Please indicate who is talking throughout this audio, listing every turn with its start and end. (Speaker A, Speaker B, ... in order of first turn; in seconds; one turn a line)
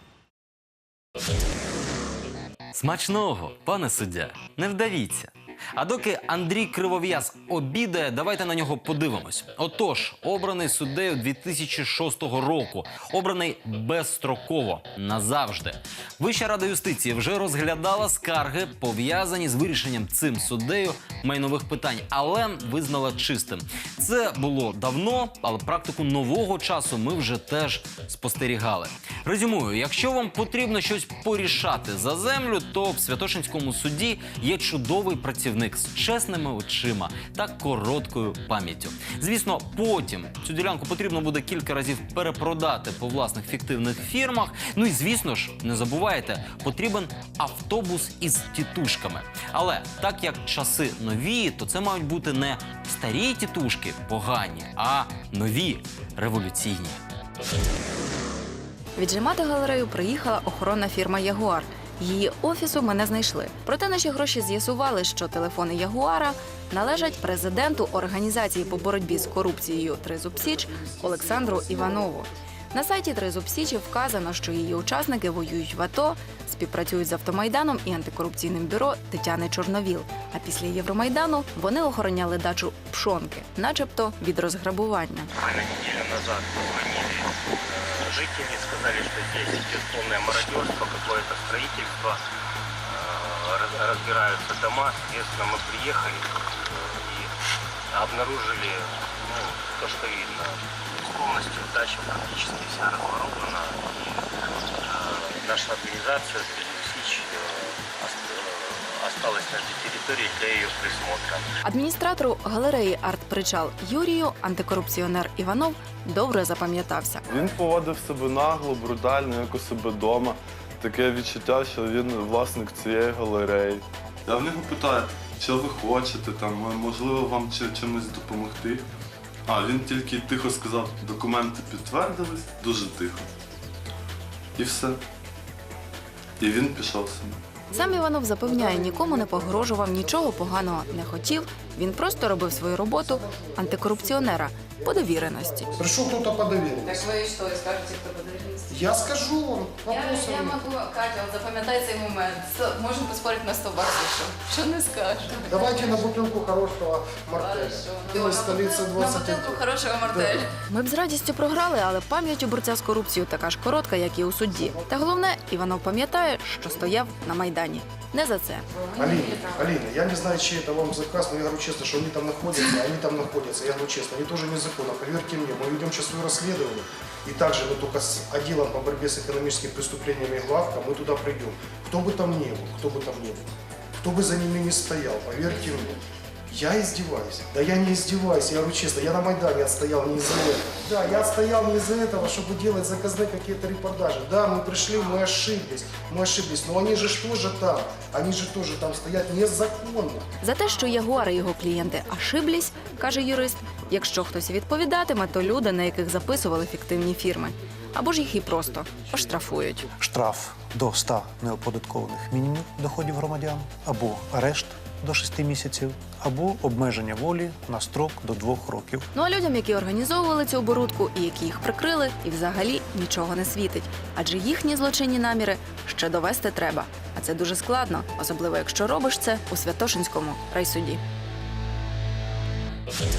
Speaker A: 2.7-57.0
Speaker B: 59.0-85.3
Speaker C: 85.4-92.2
Speaker C: 92.8-97.3
Speaker C: 97.9-104.3
Speaker C: 104.8-111.5
Speaker B: 111.6-117.2
Speaker D: 117.3-128.8
Speaker D: 129.5-133.3
Speaker D: 134.6-135.0
Speaker D: 136.4-137.4
Speaker B: 137.7-145.8
Speaker E: 138.4-147.1
Speaker B: 147.1-148.5
Speaker E: 148.7-150.7
Speaker B: 149.9-155.7
Speaker E: 155.5-160.4
Speaker B: 157.5-168.7
Speaker E: 164.5-164.9
Speaker F: 168.8-169.7
Speaker E: 169.0-183.5
Speaker E: 184.0-185.9
Speaker E: 186.5-200.3
Speaker B: 200.4-209.8
Speaker F: 210.0-219.1
Speaker B: 219.1-231.0